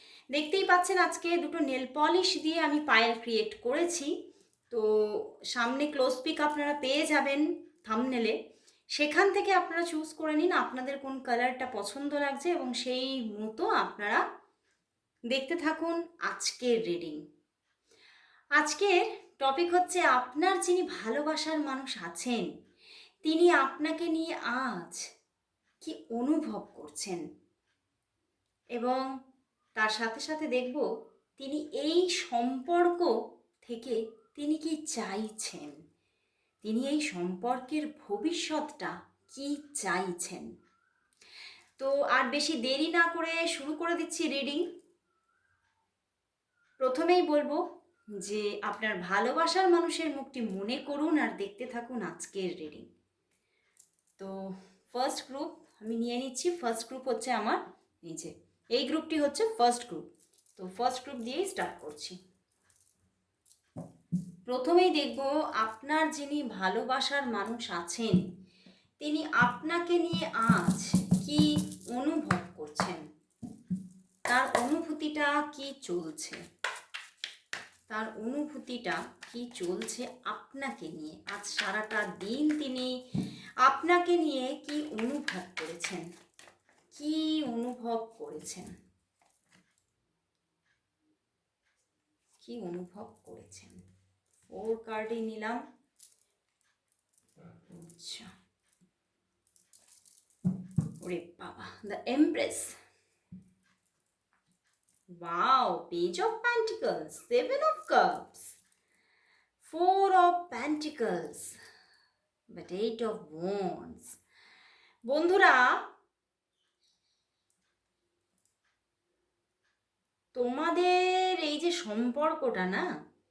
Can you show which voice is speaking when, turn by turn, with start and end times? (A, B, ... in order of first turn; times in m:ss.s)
0:00.3-0:04.1 A
0:04.7-0:08.3 A
0:09.0-0:14.2 A
0:15.3-0:17.2 A
0:18.6-0:22.5 A
0:23.2-0:25.0 A
0:25.8-0:27.2 A
0:28.8-0:29.1 A
0:29.8-0:30.8 A
0:31.4-0:35.7 A
0:36.6-0:40.5 A
0:41.8-0:44.6 A
0:46.8-0:47.6 A
0:48.2-0:52.9 A
0:54.9-1:00.0 A
1:00.6-1:02.2 A
1:04.5-1:08.2 A
1:09.0-1:13.0 A
1:14.3-1:16.4 A
1:17.9-1:22.9 A
1:23.6-1:26.0 A
1:26.9-1:28.7 A
1:32.4-1:33.8 A
1:34.5-1:35.6 A
1:37.7-1:38.3 A
1:41.0-1:42.8 A
1:45.2-1:48.6 A
1:49.6-1:51.6 A
1:52.5-1:54.2 A
1:55.1-1:55.7 A
2:00.4-2:02.9 A